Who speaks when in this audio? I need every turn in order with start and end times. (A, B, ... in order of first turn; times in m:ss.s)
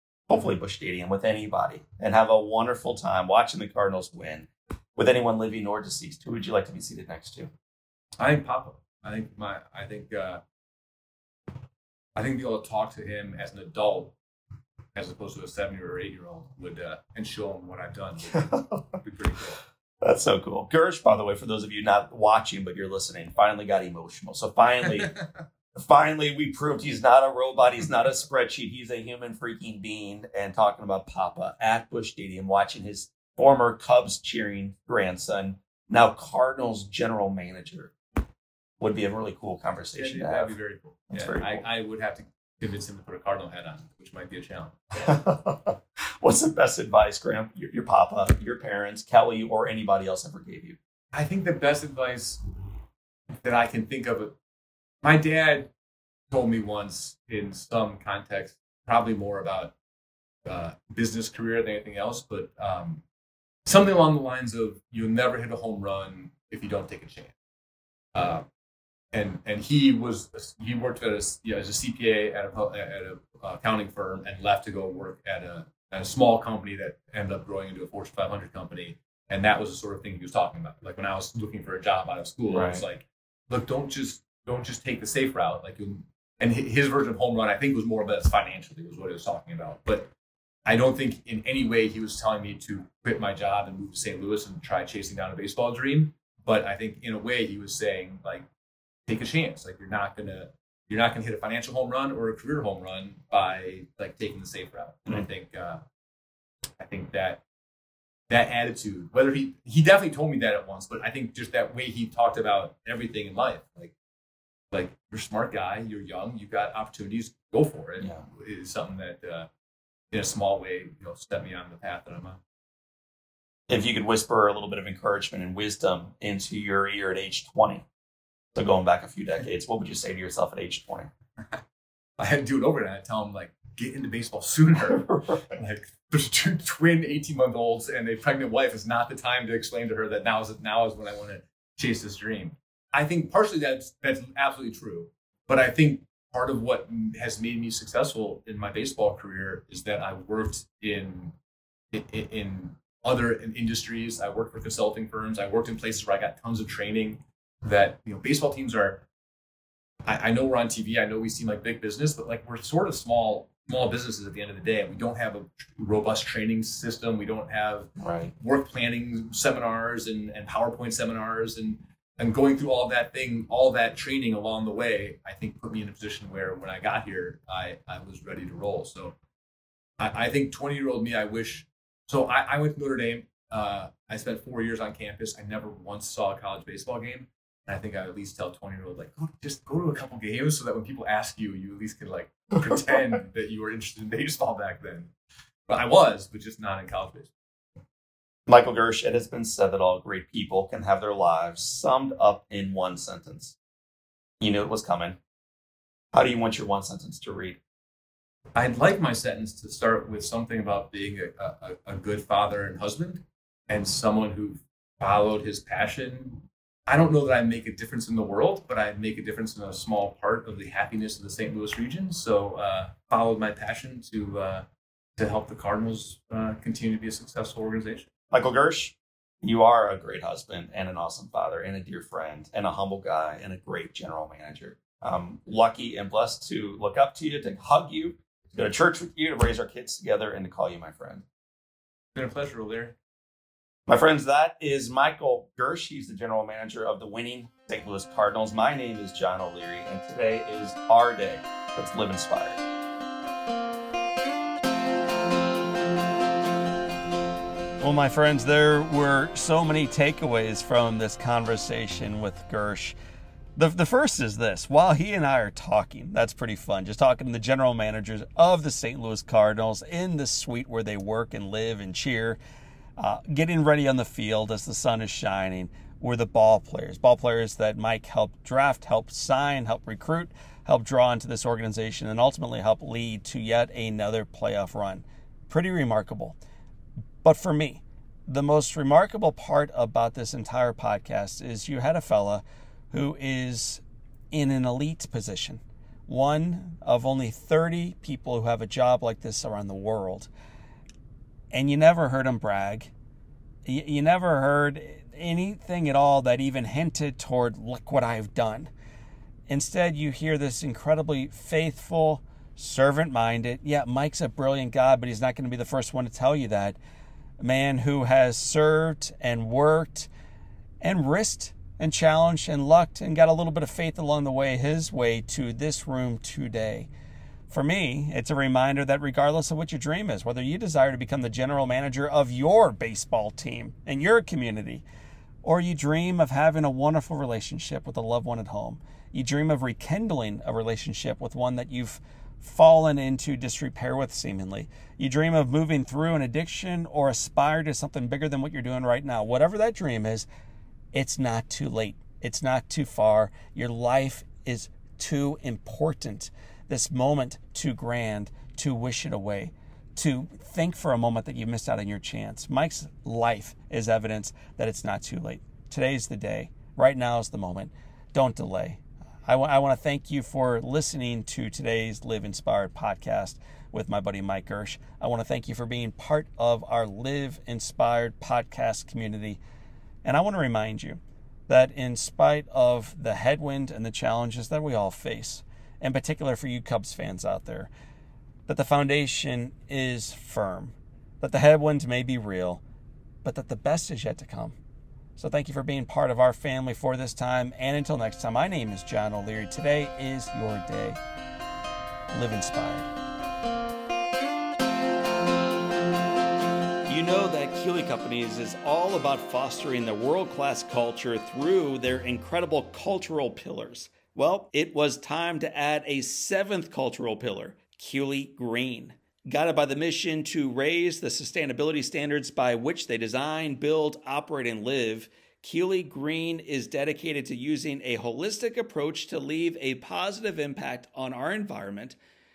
0:00.3-0:07.5 A
0:08.2-0:10.4 B
0:12.2-0:14.1 B
0:14.9-0:19.6 B
0:18.3-0:18.8 A
0:20.0-0:25.1 A
0:25.7-0:37.9 A
0:38.8-0:40.6 A
0:40.0-0:44.9 B
0:41.1-0:41.6 A
0:45.0-0:50.8 A
0:51.1-0:52.4 B
0:53.4-0:54.3 B
0:55.0-0:55.7 B
0:56.3-0:59.7 B
1:00.4-1:03.0 B
1:03.6-1:07.3 B
1:08.1-1:08.4 B
1:09.1-1:30.1 B
1:22.5-1:22.8 A
1:30.6-1:38.4 B
1:39.1-1:45.8 B
1:46.8-1:47.4 B
1:48.3-1:53.9 B
1:54.7-1:59.5 B
2:00.1-2:02.4 B
2:03.7-2:07.8 A
2:08.5-2:11.1 A
2:12.2-2:31.3 B
2:14.9-2:15.6 A
2:31.9-2:39.0 B
2:40.0-2:59.1 B
2:48.0-2:48.3 A
3:00.0-3:15.1 B
3:15.7-3:17.3 B
3:18.5-3:23.5 A
3:24.4-3:25.2 A
3:26.1-3:27.6 A
3:28.5-3:44.6 B
3:45.2-3:48.1 B
3:48.3-4:01.2 A
4:02.1-4:02.9 B
4:03.9-4:12.6 A
4:17.8-4:22.9 C
4:23.6-4:32.4 C
4:33.0-4:46.4 C
4:47.2-4:53.8 C
4:54.3-5:00.3 C
5:01.5-5:02.9 C
5:03.6-5:08.7 C
5:09.5-5:16.8 C
5:17.4-5:20.1 C
5:20.8-5:26.9 C
5:27.5-5:34.8 C
5:35.4-5:50.3 C
5:50.9-6:19.4 C
6:20.0-6:27.7 C
6:28.5-6:32.6 C
6:33.2-6:34.6 C
6:35.2-6:41.0 C
6:42.1-6:42.9 C
6:46.9-7:12.0 C